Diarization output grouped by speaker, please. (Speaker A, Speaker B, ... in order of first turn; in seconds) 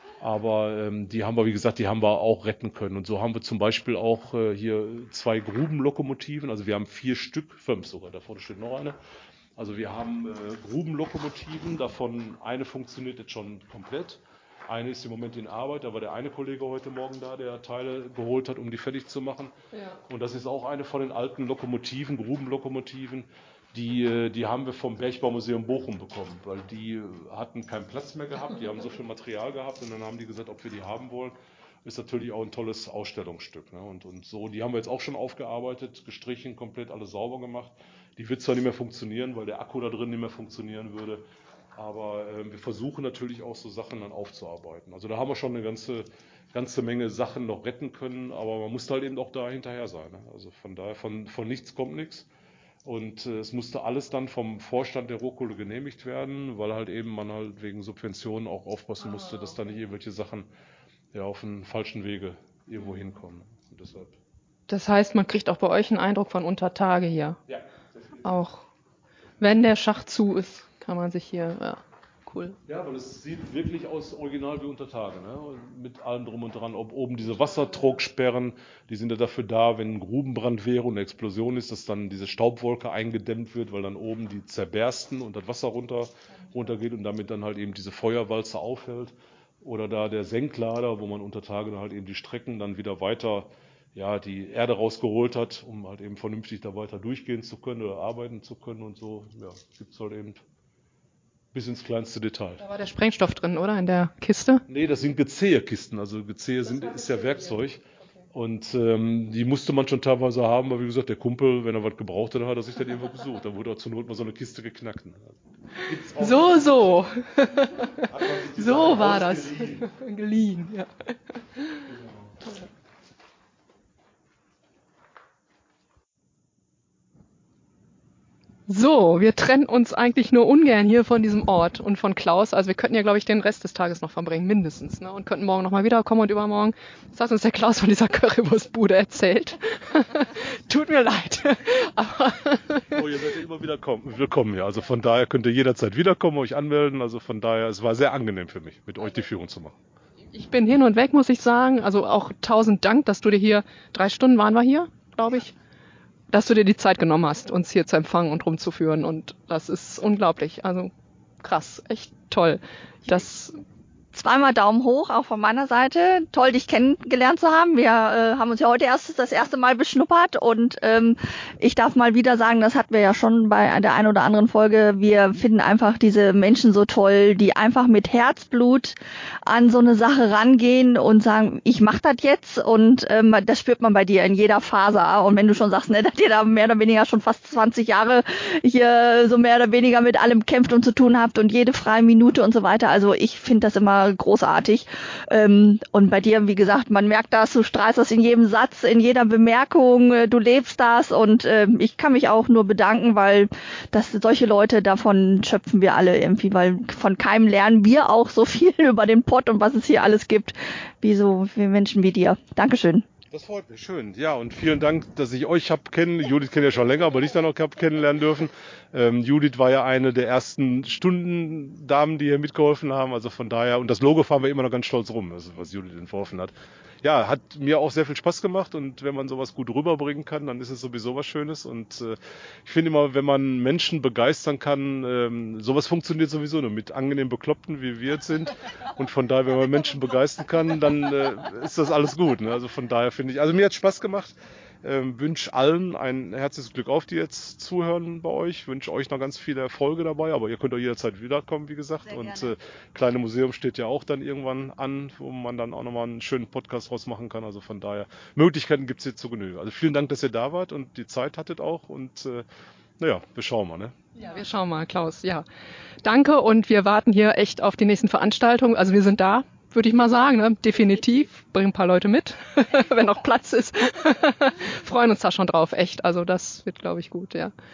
Speaker A: 0.2-8.9, 9.6-41.2, 41.7-52.3, 52.8-60.5, 61.1-64.2, 67.5-68.2, 72.7-100.4, 101.5-102.6, 104.7-116.9, 118.0-119.8, 121.9-122.3, 142.9-149.8, 213.3-262.4, 263.0-263.9
Speaker B: 64.7-67.4, 68.2-68.6, 69.4-72.6, 102.6-104.6, 116.1-120.9, 121.6-121.8, 128.7-143.0, 150.3-155.5, 156.3-160.9, 161.4-163.6, 264.1-265.4, 266.0-277.5
Speaker C: 164.1-213.1, 252.1-252.5